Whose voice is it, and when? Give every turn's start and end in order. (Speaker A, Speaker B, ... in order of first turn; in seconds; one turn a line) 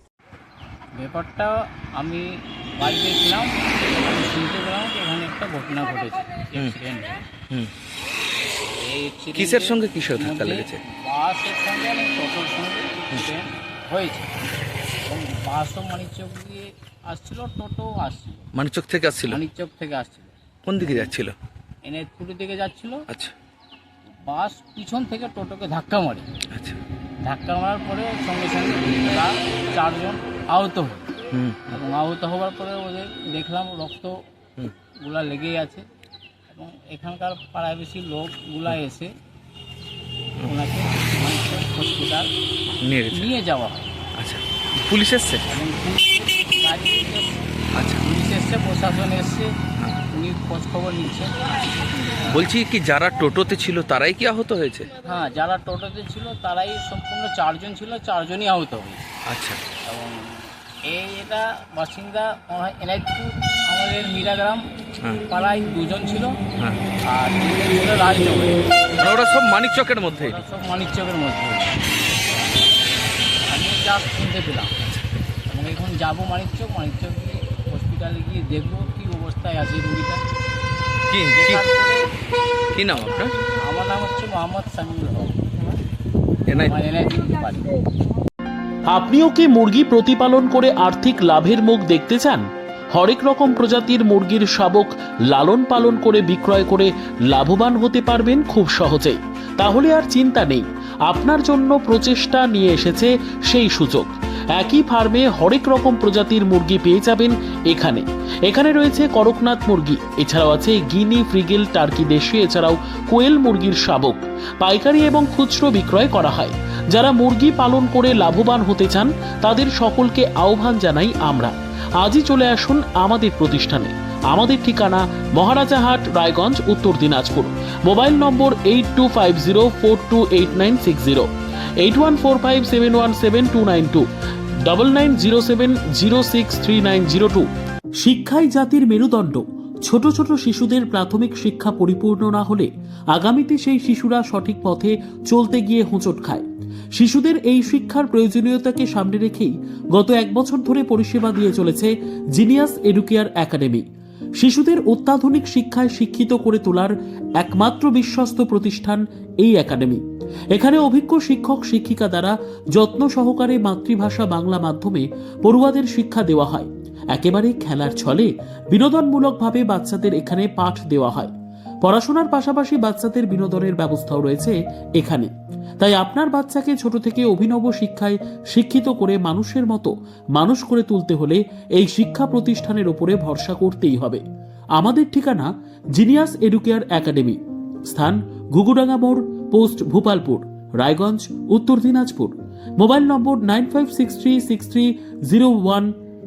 Speaker A: 1.0-7.2
Speaker A: 8.6-14.3
Speaker B: 9.3-10.8
Speaker A: 15.1-18.5
Speaker B: 18.6-19.4
Speaker A: 19.2-21.1
Speaker B: 20.7-21.4
Speaker A: 21.8-23.0
Speaker A: 24.2-26.3
Speaker B: 26.5-26.8
Speaker A: 27.2-31.1
Speaker B: 31.3-31.8
Speaker A: 31.7-34.2
Speaker A: 35.0-35.9
Speaker A: 36.5-39.1
Speaker A: 40.5-42.3
Speaker B: 42.8-43.3
Speaker A: 43.1-43.9
Speaker B: 44.2-45.4
Speaker A: 45.5-47.5
Speaker B: 47.7-48.0
Speaker A: 48.0-49.5
Speaker A: 50.1-51.7
Speaker B: 52.3-54.9
Speaker A: 55.0-59.1
Speaker B: 59.3-59.6
Speaker A: 59.9-64.6
Speaker A: 65.3-66.4
Speaker B: 66.6-66.8
Speaker A: 67.1-68.8
Speaker B: 69.0-70.4
Speaker A: 70.1-72.2
Speaker A: 73.5-74.7
Speaker A: 75.5-80.2
Speaker B: 81.1-81.6
Speaker A: 81.3-82.0
Speaker B: 82.7-83.3
Speaker A: 83.6-85.5
Speaker B: 86.5-86.8
Speaker A: 86.7-87.8
Speaker C: 88.9-131.3
Speaker C: 131.8-134.0
Speaker C: 134.7-137.5
Speaker C: 138.0-153.8
Speaker C: 154.4-160.0
Speaker C: 160.5-171.3
Speaker C: 171.8-184.2
Speaker C: 184.8-187.4
Speaker C: 187.9-195.9